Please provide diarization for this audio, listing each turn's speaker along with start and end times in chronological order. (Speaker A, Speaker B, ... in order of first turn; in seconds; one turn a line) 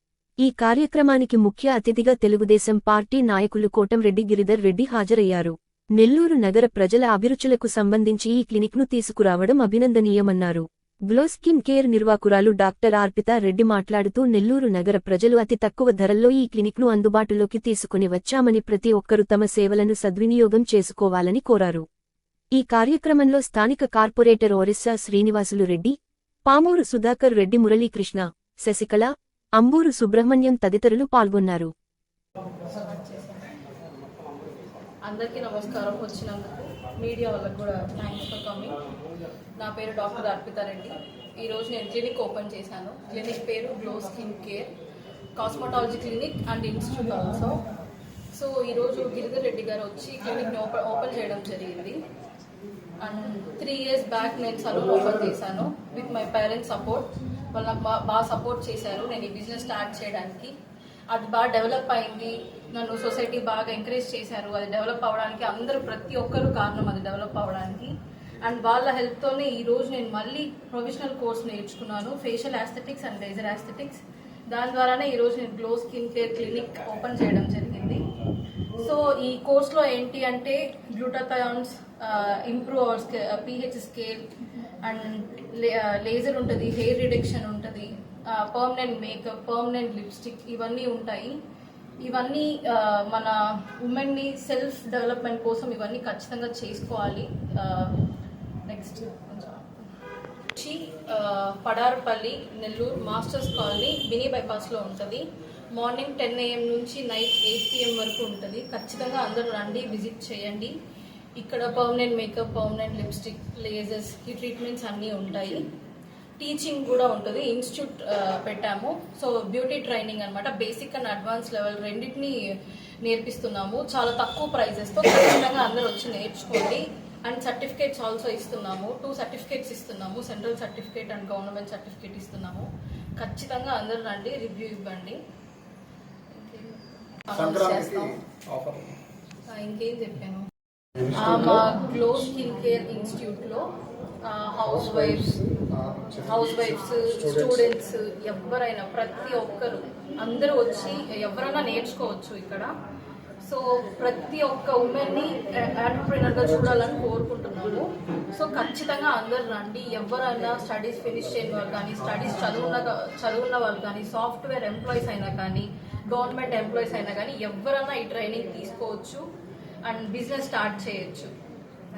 Speaker A: 0.4-21.9
Speaker A: 22.5-31.7
Speaker B: 32.7-33.5
Speaker B: 35.0-38.8
Speaker B: 39.6-44.7
Speaker B: 45.3-47.6
Speaker B: 48.3-52.0
Speaker B: 53.0-60.5
Speaker B: 61.1-78.0
Speaker B: 78.7-84.3
Speaker B: 84.8-91.4
Speaker B: 92.0-98.0
Speaker B: 98.6-99.7
Speaker B: 100.5-110.7
Speaker B: 111.3-115.7
Speaker B: 116.4-122.4
Speaker B: 123.0-135.2
Speaker B: 136.3-138.2
Speaker C: 137.3-138.9
Speaker B: 139.5-140.5
Speaker C: 141.0-141.6
Speaker B: 141.1-143.7
Speaker B: 144.2-145.3
Speaker C: 144.8-146.4
Speaker B: 146.3-152.7
Speaker C: 147.2-147.6
Speaker B: 153.4-169.2
Speaker B: 169.8-171.3